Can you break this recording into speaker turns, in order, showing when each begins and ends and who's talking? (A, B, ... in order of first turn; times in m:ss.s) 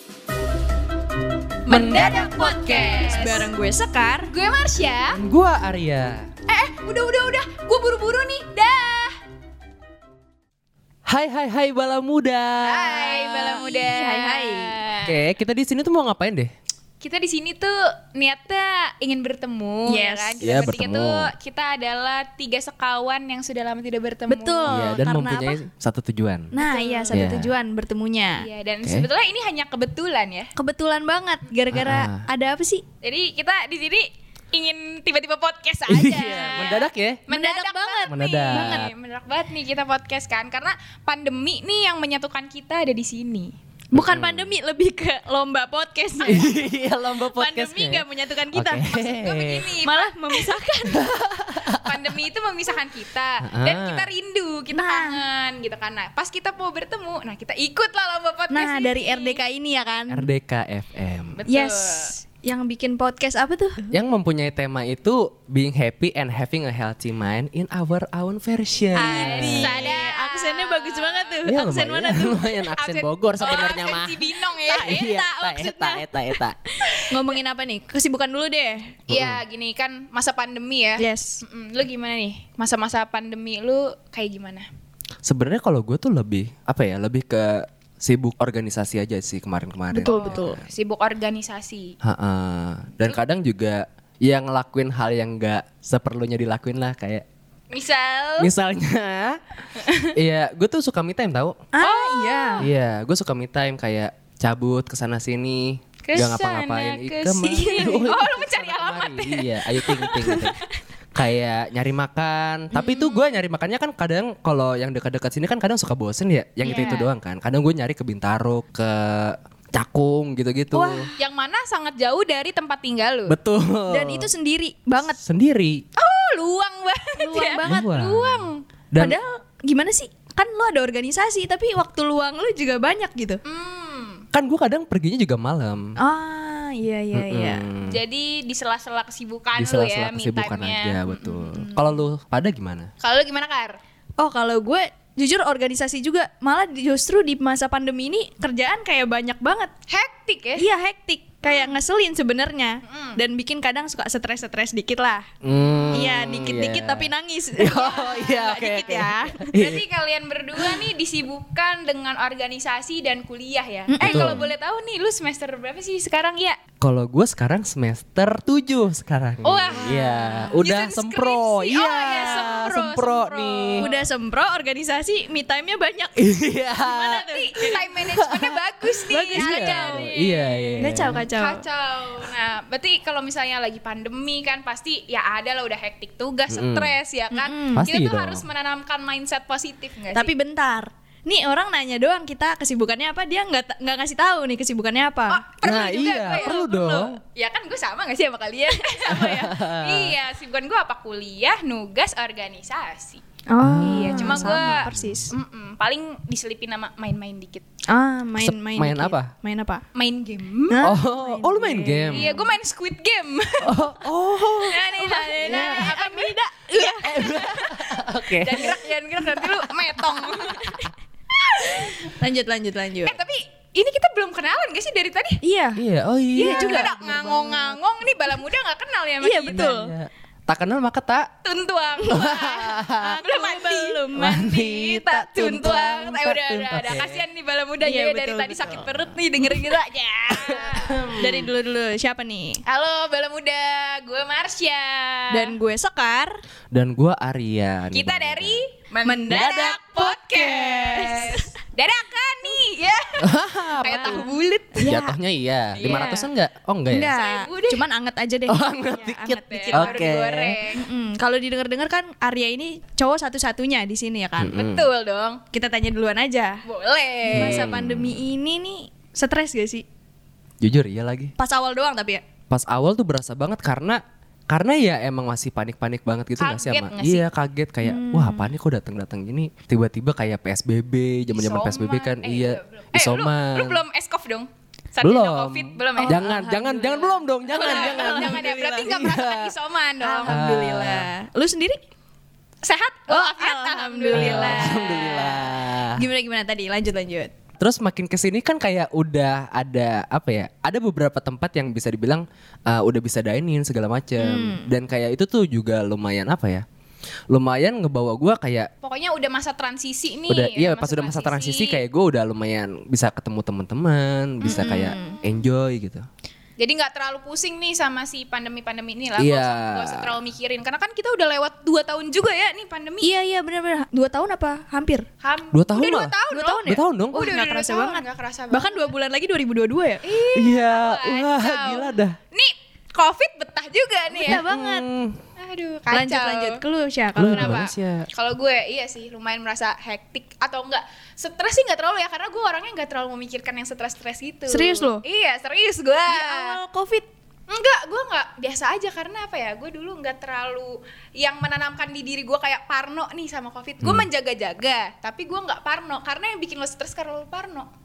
0:01.6-0:03.5 A
0:01.7-0:02.9 B
0:01.9-0:04.3 C
0:04.3-0:05.2 A
0:05.1-0:06.3 B
0:06.5-0:09.2 A
0:11.1-0:13.5 B
0:12.6-0:15.2 A
0:13.5-0:14.7 C
0:15.0-0:16.5 B
0:17.0-0:24.9 A
0:19.9-0:20.5 C
0:20.4-0:21.3 B
0:24.3-0:25.6 C
0:24.7-0:26.5 B
0:26.5-0:28.5 C
0:26.6-0:27.3 A
0:27.1-0:27.5 B
0:28.4-0:30.5 A
0:30.6-0:32.8 C
0:31.7-0:32.2 B
0:33.0-0:43.5 A
0:35.9-0:37.2 B
0:37.3-0:38.9 C
0:38.1-0:38.9 B
0:43.9-0:46.5 C
0:43.9-0:44.5 B
0:46.2-0:49.7 B
0:47.1-0:49.0 C
0:48.9-0:50.5 A
0:49.8-0:51.1 C
0:50.9-0:52.0 B
0:51.6-0:59.4 A
0:53.4-0:54.1 B
0:54.7-0:55.2 C
0:58.5-1:00.3 C
1:00.1-1:01.4 B
1:01.4-1:02.1 A
1:01.5-1:03.9 C
1:03.9-1:09.9 B
1:08.9-1:12.5 C
1:09.0-1:11.4 A
1:11.5-1:16.6 B
1:12.7-1:15.3 A
1:14.7-1:18.9 C
1:16.8-1:17.2 A
1:19.1-1:19.4 B
1:19.1-1:24.7 A
1:21.0-1:21.4 C
1:25.2-1:30.7 B
1:29.9-1:30.6 C
1:30.0-1:31.9 A
1:32.0-1:37.2 B
1:37.7-1:38.5 A
1:38.4-1:39.4 B
1:39.8-1:40.1 A
1:40.1-1:41.6 B
1:41.7-1:42.7 C
1:41.8-1:42.7 A
1:42.6-1:50.6 B
1:46.0-1:50.4 A
1:47.6-1:48.1 C
1:50.0-1:50.4 C
1:51.1-2:01.1 B
1:52.7-1:53.3 A
1:56.6-1:57.1 A
1:56.7-1:57.0 C
2:00.7-2:01.1 C
2:01.2-2:03.3 A
2:03.3-2:04.3 B
2:03.9-2:05.2 C
2:05.2-2:05.8 B
2:06.0-2:08.6 A
2:07.2-2:07.8 C
2:07.6-2:09.2 B
2:09.0-2:13.4 C
2:13.4-2:14.2 A
2:14.3-2:16.0 B
2:16.0-2:17.6 C
2:17.1-2:18.0 B
2:17.8-2:21.8 A
2:19.6-2:22.9 B
2:23.0-2:23.8 A
2:24.2-2:29.7 C
2:29.9-2:30.7 A
2:30.6-2:35.2 C
2:31.4-2:31.8 A
2:32.8-2:33.2 A
2:35.4-2:39.8 B
2:35.9-2:39.5 C
2:37.6-2:46.6 A
2:43.9-2:44.4 C
2:44.0-2:44.4 B
2:46.8-2:53.9 B
2:49.4-2:54.0 A
2:49.8-2:50.5 C
2:53.8-2:57.8 C
2:56.2-3:01.3 B
2:57.2-3:10.3 A
2:59.1-3:00.1 C
3:00.8-3:01.6 C
3:06.5-3:06.9 B
3:07.3-3:07.9 C
3:07.8-3:08.4 B
3:10.1-3:15.4 C
3:15.3-3:23.2 A
3:15.6-3:17.2 B
3:18.7-3:19.5 C
3:19.1-3:20.2 B
3:23.5-3:25.3 C
3:23.6-3:25.2 B
3:23.8-3:27.6 A
3:27.9-3:29.8 C
3:28.4-3:29.3 B
3:29.9-3:30.8 A
3:30.7-3:32.5 C
3:30.8-3:32.4 B
3:32.1-3:33.9 A
3:33.6-3:36.0 B
3:34.6-3:37.8 A
3:34.7-3:37.7 C
3:37.0-3:38.8 B
3:38.4-3:42.1 A
3:39.4-3:39.7 B
3:40.5-3:40.7 B
3:41.6-3:43.1 C
3:43.0-3:45.4 A
3:45.4-3:45.8 C
3:45.8-3:47.8 B
3:46.3-3:49.7 A
3:46.4-3:46.9 C
3:49.2-3:49.9 C
3:49.5-3:51.3 B
3:51.4-4:01.2 A
3:52.1-3:53.2 B
3:52.9-3:54.4 C
3:54.2-3:57.2 B
3:55.7-3:56.0 C
3:57.8-3:58.9 C
4:00.3-4:01.5 B
4:01.2-4:02.6 C
4:02.6-4:05.6 A
4:05.3-4:06.3 C
4:06.7-4:08.6 B
4:07.9-4:14.9 A
4:09.0-4:11.5 C
4:09.3-4:09.7 B
4:13.2-4:14.3 B
4:13.8-4:15.2 C
4:14.8-4:17.1 B
4:15.8-4:16.3 C
4:15.8-4:16.2 A
4:16.9-4:20.1 C
4:17.1-4:17.8 A
4:18.5-4:20.6 B
4:19.2-4:20.8 A
4:20.8-4:24.6 C
4:24.4-4:24.9 B
4:24.5-4:25.4 A
4:25.5-4:26.6 C
4:26.6-4:27.8 A
4:27.3-4:28.2 B
4:27.3-4:29.8 C
4:30.6-4:31.3 B
4:31.4-4:32.2 C
4:32.5-4:43.8 B
4:36.4-4:37.2 A
4:37.8-4:38.5 C
4:41.3-4:46.2 A
4:45.0-4:49.5 B
4:46.0-4:48.9 C
4:47.5-4:50.4 A
4:50.0-4:51.8 C
4:50.3-4:51.1 B
4:52.6-4:55.4 A
4:53.1-4:57.3 C
4:54.1-4:56.0 B
4:57.6-5:06.6 B
5:04.2-5:04.7 C
5:07.3-5:08.7 B
5:08.8-5:11.8 A
5:10.3-5:16.0 B
5:14.4-5:15.2 C
5:14.4-5:15.4 A
5:16.6-5:23.1 A
5:19.2-5:20.1 B
5:23.0-5:25.0 C
5:25.2-5:28.9 A
5:25.5-5:27.2 B
5:26.3-5:30.0 C
5:30.0-5:34.4 A
5:30.3-5:32.2 B
5:34.1-5:34.8 C
5:34.2-5:35.2 B
5:35.4-5:36.6 A
5:35.9-5:37.6 C
5:37.2-5:38.1 B
5:37.2-5:46.6 A
5:44.5-5:45.0 C
5:46.1-5:47.1 C
5:47.5-5:57.7 A
5:53.8-5:54.1 B